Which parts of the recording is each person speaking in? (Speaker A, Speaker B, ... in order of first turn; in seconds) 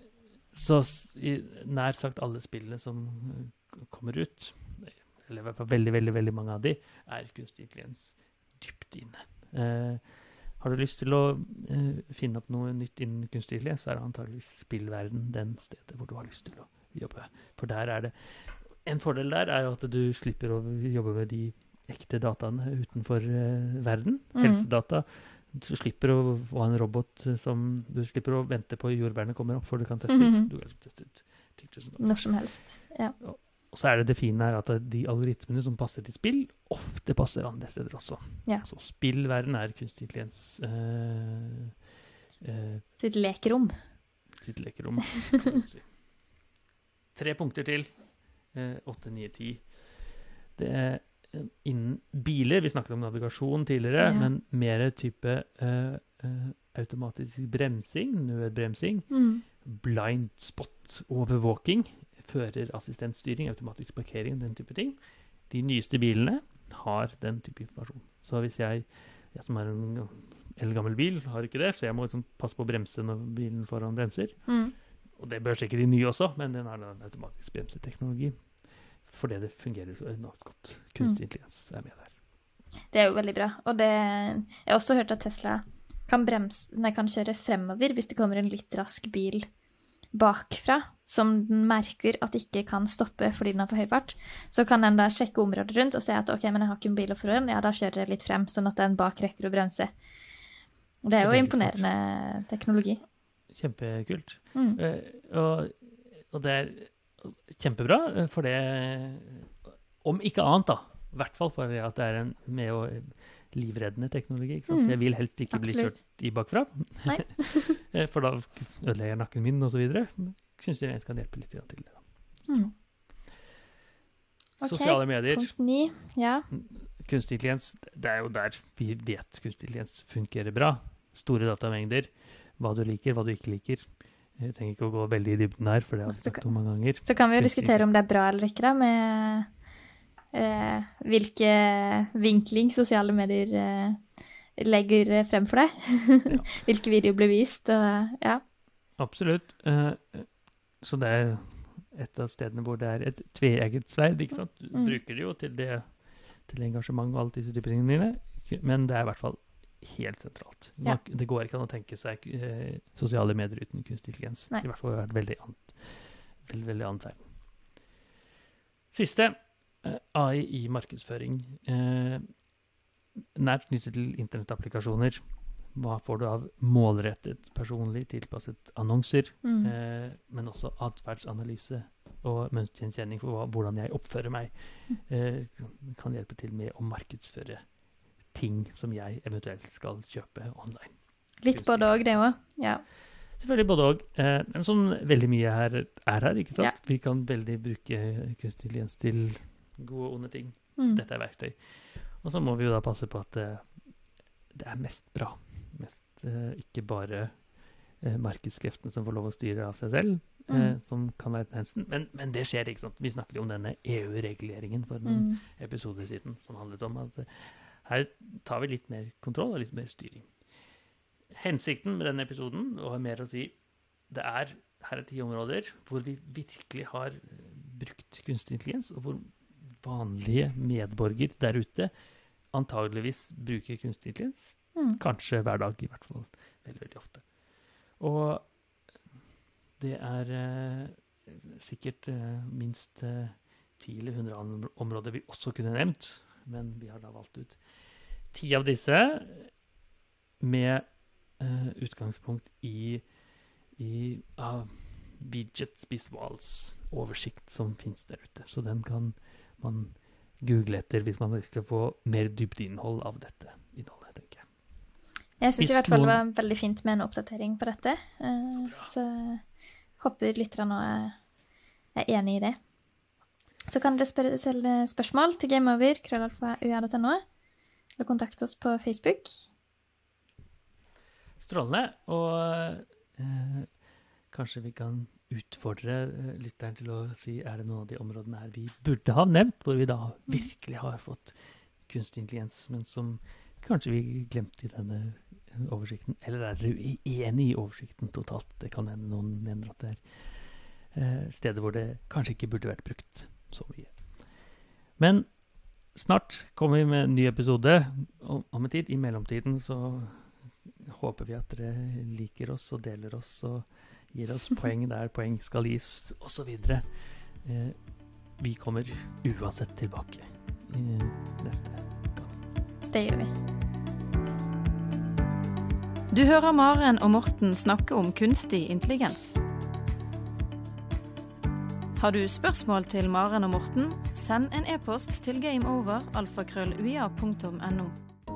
Speaker A: 0.5-32.3, 33.2-41.7, 42.4-42.8, 44.4-45.9, 47.1-48.0, 48.5-65.0, 65.5-74.5, 75.2-78.5, 79.0-82.1, 101.2-101.9, 103.5-122.0, 124.6-125.5, 126.5-137.8, 146.3-146.6, 149.0-167.2, 168.9-172.2, 173.3-187.6, 188.3-190.9, 191.5-192.3, 193.3-203.7, 204.5-207.5, 208.0-220.3, 221.3-223.6, 224.1-231.9, 232.5-237.2, 238.0-238.5, 239.8-247.6, 248.3-249.5, 250.4-253.0, 253.8-264.4, 265.6-266.2, 268.5-268.9, 281.4-283.7, 284.3-300.0, 300.9-304.1, 305.0-305.4, 305.9-316.9, 317.4-317.8, 318.4-322.4
Speaker B: 24.3-24.6, 30.1-30.5, 32.0-33.1, 43.0-43.8, 54.0-54.3, 59.1-59.4, 74.5-74.7, 82.9-89.5, 90.1-99.9, 101.0-103.0, 114.7-115.0, 115.5-116.0, 117.0-117.8, 124.6-126.5, 136.1-139.5, 140.3-148.4, 179.4-179.7, 191.4-192.8, 200.8-201.0, 210.5-210.8, 215.0-215.4, 265.4-269.4, 270.0-271.2, 271.9-272.6, 273.7-277.2, 278.0-279.4, 322.9-323.3
Speaker C: 326.1-329.4, 332.0-337.9